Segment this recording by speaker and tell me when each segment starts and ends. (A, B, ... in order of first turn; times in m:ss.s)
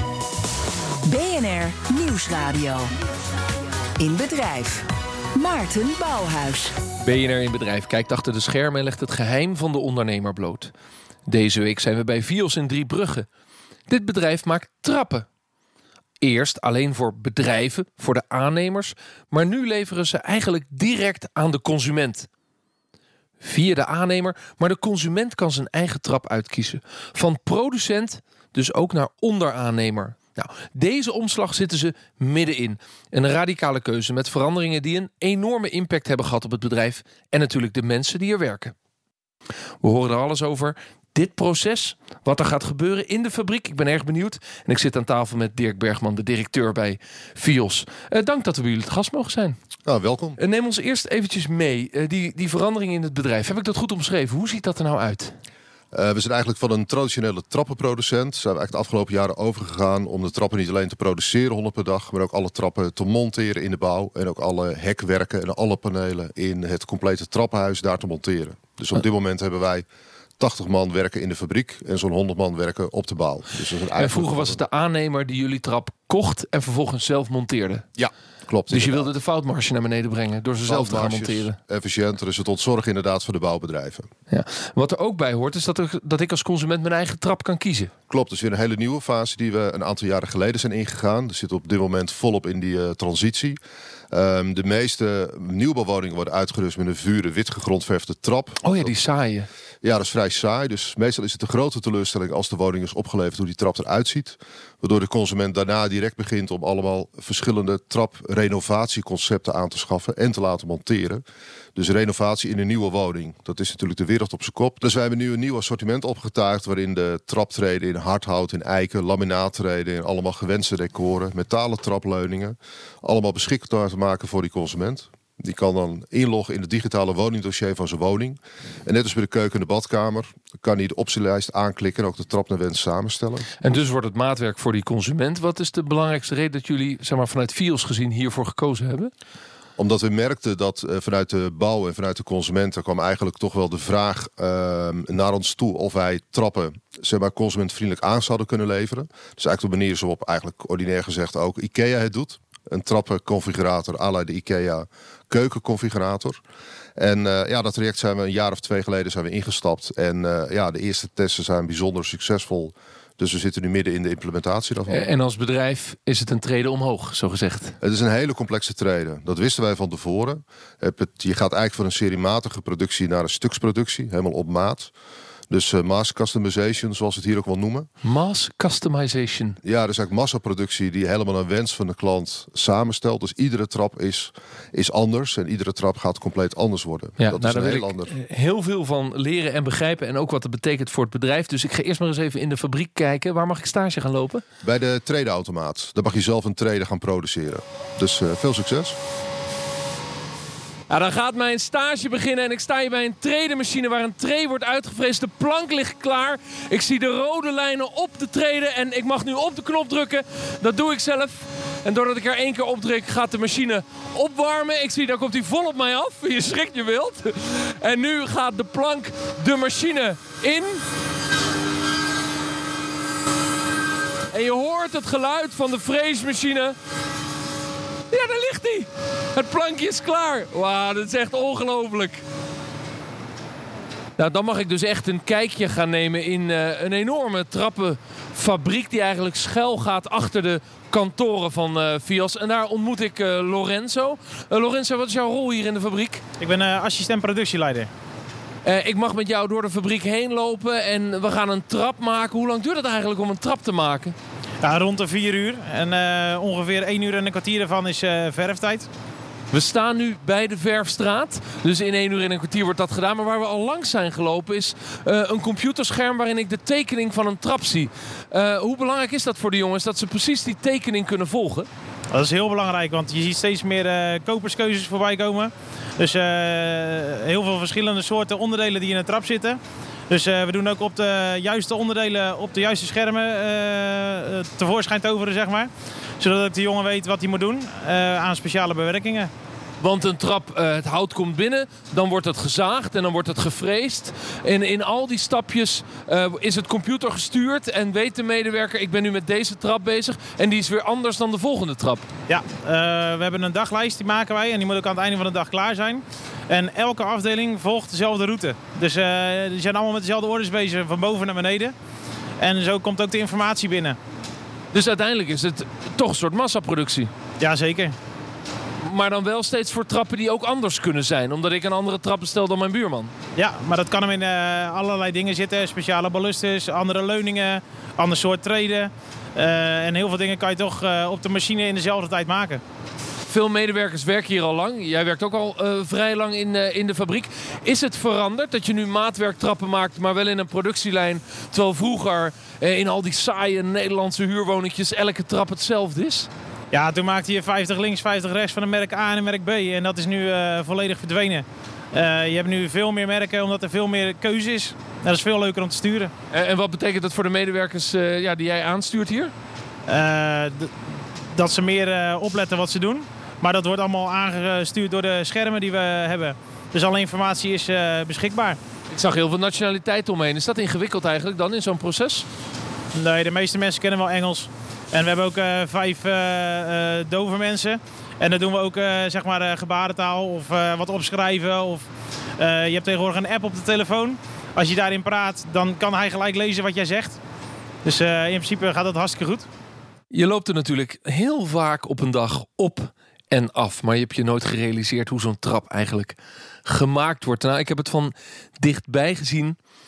0:01.0-0:02.9 A
0:04.0-0:06.8 A
0:07.0-0:10.7 B
0:11.3-0:13.3 B
0:13.9-0:15.3 B
0:16.2-0:22.3 B
0:23.4-0:38.7 B
0:39.8-0:49.6 B
0:49.9-0:50.4 C
0:50.4-0:55.4 B
0:55.9-1:09.9 C
1:10.4-1:14.6 C
1:14.0-1:17.9 B
1:18.0-1:19.1 C
1:18.7-1:21.6 B
1:20.7-1:24.1 C
1:24.3-1:27.9 B
1:28.1-1:33.6 C
1:34.1-1:38.9 C
1:38.6-1:39.5 B
1:39.8-1:51.2 C
1:51.8-2:13.5 C
2:13.6-2:19.1 B
2:19.8-2:36.4 C
2:37.0-2:45.1 C
2:44.9-2:47.8 B
2:47.8-2:54.9 C
2:55.5-2:57.9 C
2:58.0-2:59.6 B
2:59.6-3:08.1 C
3:07.2-3:14.4 B
3:14.6-3:19.0 C
3:20.9-3:40.8 B
3:44.3-3:46.8 B
3:48.1-3:52.2 B
3:54.2-4:06.2 B
4:06.4-4:07.9 D
4:08.6-4:14.2 B
4:14.6-4:18.9 D
4:19.5-4:31.7 B
4:32.1-4:49.3 D
4:49.8-5:02.1 B
5:02.3-5:11.7 D
5:12.4-5:14.0 D
5:14.7-5:17.1 B
5:17.4-5:17.9 D
5:18.8-5:23.1 B
5:23.4-5:32.6 D
5:33.3-5:46.3 B
5:46.7-5:56.1 D
5:56.3-5:59.3 B
5:59.9-6:00.7 D
6:01.4-6:08.6 D
6:08.9-6:12.3 B
6:13.0-6:21.9 D
6:22.4-6:27.2 D
6:27.8-6:29.5 D
6:30.1-6:39.6 B